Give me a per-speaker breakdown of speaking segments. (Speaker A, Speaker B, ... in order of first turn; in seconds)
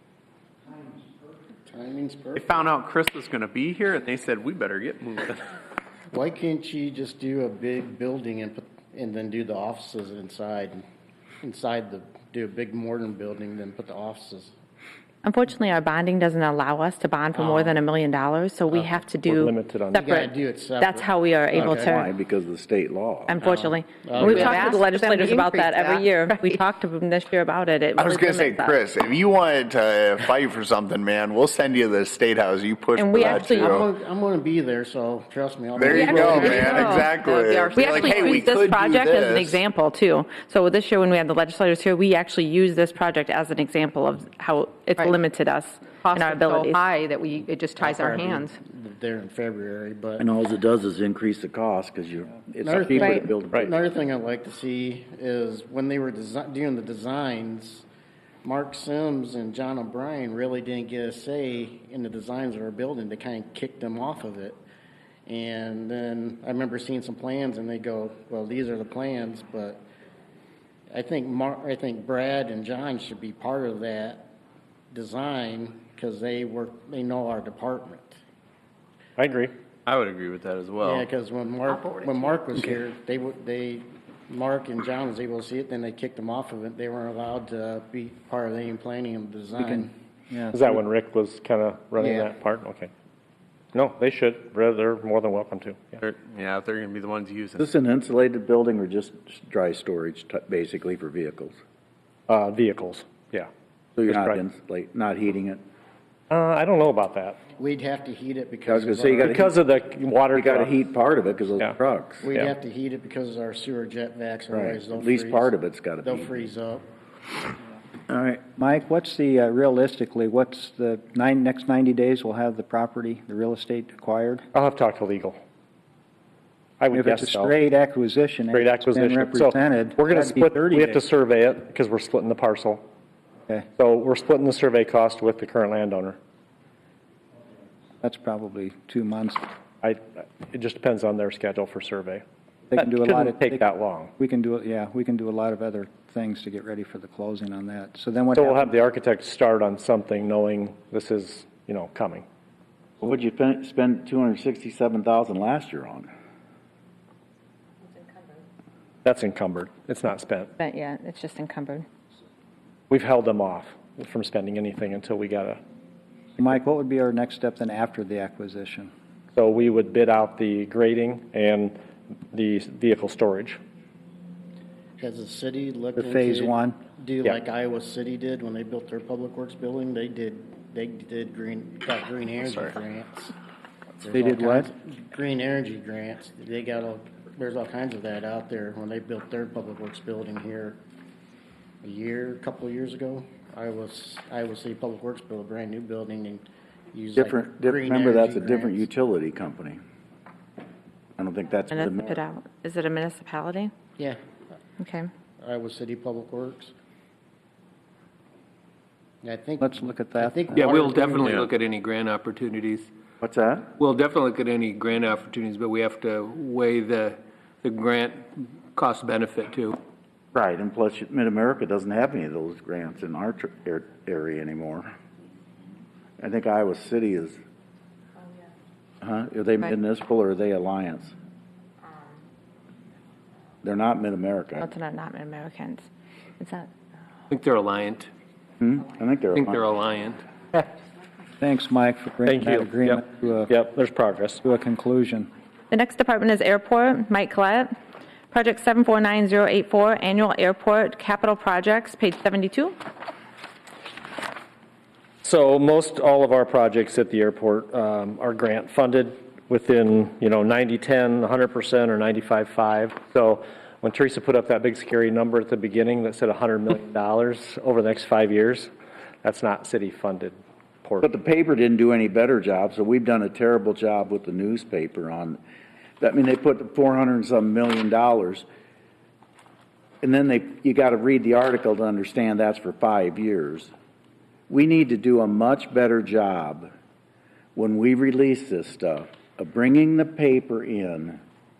Speaker A: 1.7-2.7, 6.1-10.8, 11.4-14.5, 17.3-17.8, 19.9-22.0, 23.4-24.6, 33.2-37.1, 47.8-50.2, 52.6-57.9, 58.4-64.6, 65.2-69.8, 70.9-74.3, 74.9-78.2, 80.8-89.9, 92.0-92.3, 107.6-109.5, 112.2-116.9, 175.0-183.3, 184.0-190.8, 191.8-198.8, 205.4-206.7, 209.2-211.4
Speaker B: 2.4-5.4, 79.9-81.0, 96.0-97.6
Speaker C: 2.9-5.2, 28.0-33.9, 35.8-39.6
Speaker D: 15.2-22.1, 23.3-28.8, 33.0-33.8, 37.7-46.8, 53.0-53.2, 160.6-161.8, 201.7-203.7, 204.8-205.1, 234.6-235.9, 236.4-236.7, 245.7-247.7, 248.3-252.8
Speaker E: 18.7-20.2, 79.2-79.5, 90.5-92.9, 93.7-96.0, 102.3-103.5, 104.0-104.4, 106.3-107.4, 109.2-110.7, 124.5-125.4, 126.8-127.5, 128.5-132.8, 133.8-136.2, 139.8-142.2, 142.8-144.1, 148.3-152.2, 159.0-160.5, 162.9-165.6, 169.3-171.8, 172.3-173.6, 242.2-244.4, 255.2-268.7, 269.2-271.1
Speaker F: 21.5-23.4, 50.2-53.7, 97.6-101.6, 104.0-105.6, 108.7-109.5, 110.3-112.2, 114.5-116.3, 118.1-118.4, 153.0-156.1, 197.2-199.8, 201.2-202.2, 213.2-213.7, 220.3-224.9, 226.2-227.4, 229.0-231.1, 233.6-234.7, 238.6-239.7, 271.0-275.4, 276.0-278.4, 280.0-283.7, 284.5-286.7, 287.6-291.2
Speaker G: 24.2-26.6, 36.3-38.1, 46.0-48.6
Speaker H: 89.6-90.8, 118.5-124.5, 126.9-131.0, 138.0-139.4, 142.7-148.8, 166.4-168.9, 175.9-176.8, 184.1-184.7, 209.6-210.6, 241.4-243.5, 244.4-245.3
Speaker I: 210.5-212.9, 213.8-219.8, 237.3-238.1, 239.3-240.2